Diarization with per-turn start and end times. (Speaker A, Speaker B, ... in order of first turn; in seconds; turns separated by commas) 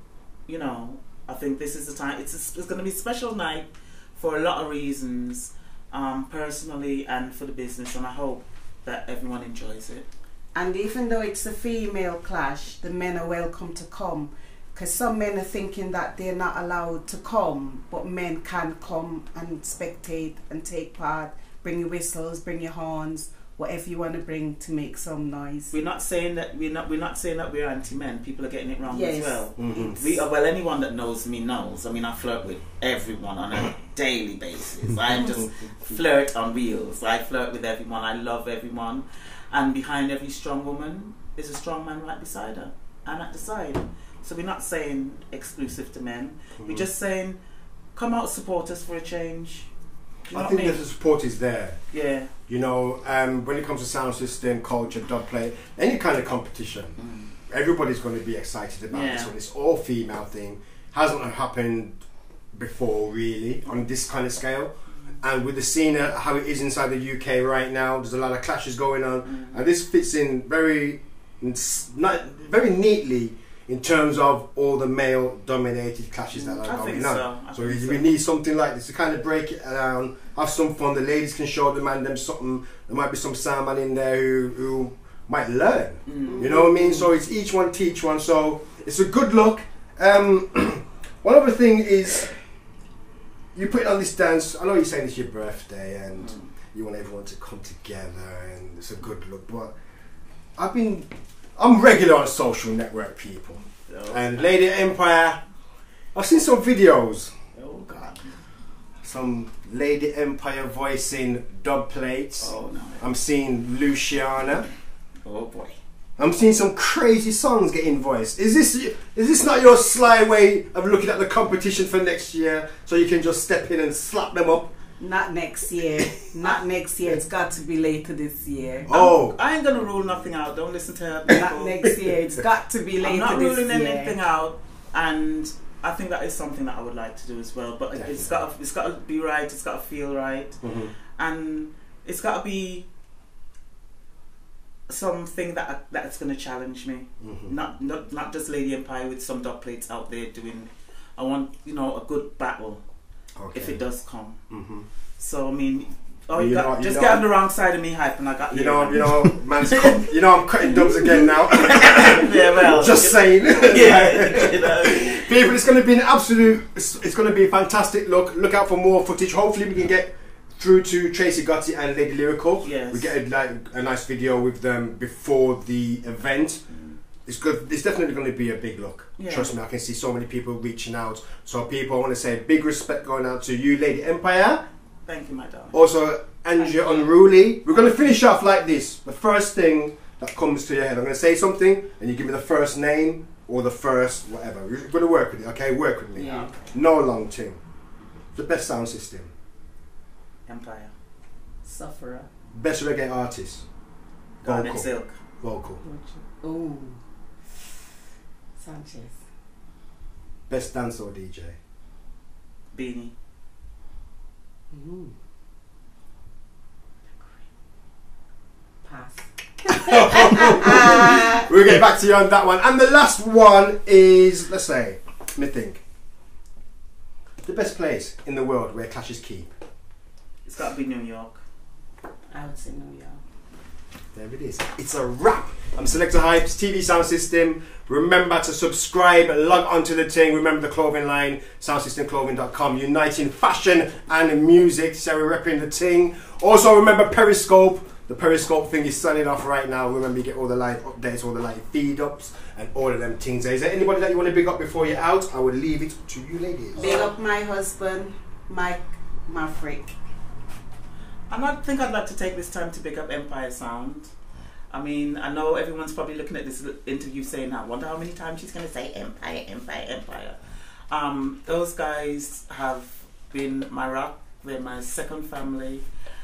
Speaker A: 0.5-10.1, Speaker B: 10.6-25.7, Speaker A: 25.7-47.4, Speaker B: 28.9-29.9, Speaker C: 29.6-30.0, Speaker C: 46.6-46.9, Speaker A: 47.9-49.7, Speaker C: 50.3-51.8, Speaker A: 50.3-50.8, Speaker A: 51.9-52.3, Speaker C: 52.5-57.0, Speaker A: 57.0-57.3, Speaker C: 57.5-62.0, Speaker A: 58.9-59.3, Speaker C: 62.5-92.3, Speaker A: 69.3-69.7, Speaker A: 76.3-78.1, Speaker A: 86.1-86.7, Speaker B: 86.3-87.0, Speaker C: 93.5-99.7, Speaker A: 96.2-96.5, Speaker C: 100.6-105.4, Speaker A: 103.9-104.5, Speaker C: 106.2-107.3, Speaker A: 107.5-108.4, Speaker C: 109.0-114.7, Speaker A: 112.4-113.1, Speaker A: 115.2-115.8, Speaker C: 116.2-124.7, Speaker B: 125.0-128.9, Speaker C: 128.9-129.4, Speaker A: 128.9-132.0, Speaker B: 131.3-134.2, Speaker A: 133.0-140.6, Speaker C: 137.9-138.4, Speaker C: 140.6-140.9, Speaker A: 141.2-142.9, Speaker A: 144.9-152.8, Speaker C: 147.2-147.6, Speaker C: 153.4-153.8, Speaker A: 153.5-154.4, Speaker C: 154.5-154.9, Speaker A: 155.2-160.2, Speaker C: 156.3-157.3, Speaker C: 158.5-176.6, Speaker A: 160.7-165.2, Speaker A: 172.6-173.1, Speaker A: 176.7-177.0, Speaker C: 177.3-184.6, Speaker A: 179.2-179.5, Speaker A: 185.1-185.8, Speaker C: 185.7-197.6, Speaker B: 186.6-187.0, Speaker B: 196.2-196.6, Speaker A: 196.2-196.6, Speaker C: 198.3-199.3, Speaker A: 200.5-200.9, Speaker B: 201.7-202.3, Speaker C: 202.6-203.7, Speaker C: 204.4-204.9, Speaker A: 204.4-205.2, Speaker C: 205.4-205.8, Speaker B: 205.8-207.0, Speaker B: 208.6-209.2, Speaker C: 210.5-211.6, Speaker A: 212.7-213.1, Speaker B: 214.7-215.1, Speaker B: 218.8-221.4, Speaker C: 219.7-225.8, Speaker C: 227.4-229.5, Speaker A: 230.4-231.4, Speaker B: 232.3-233.2, Speaker C: 234.2-256.9, Speaker B: 256.7-259.9, Speaker A: 256.8-257.1, Speaker A: 261.3-264.1, Speaker A: 264.7-270.4, Speaker A: 270.9-275.9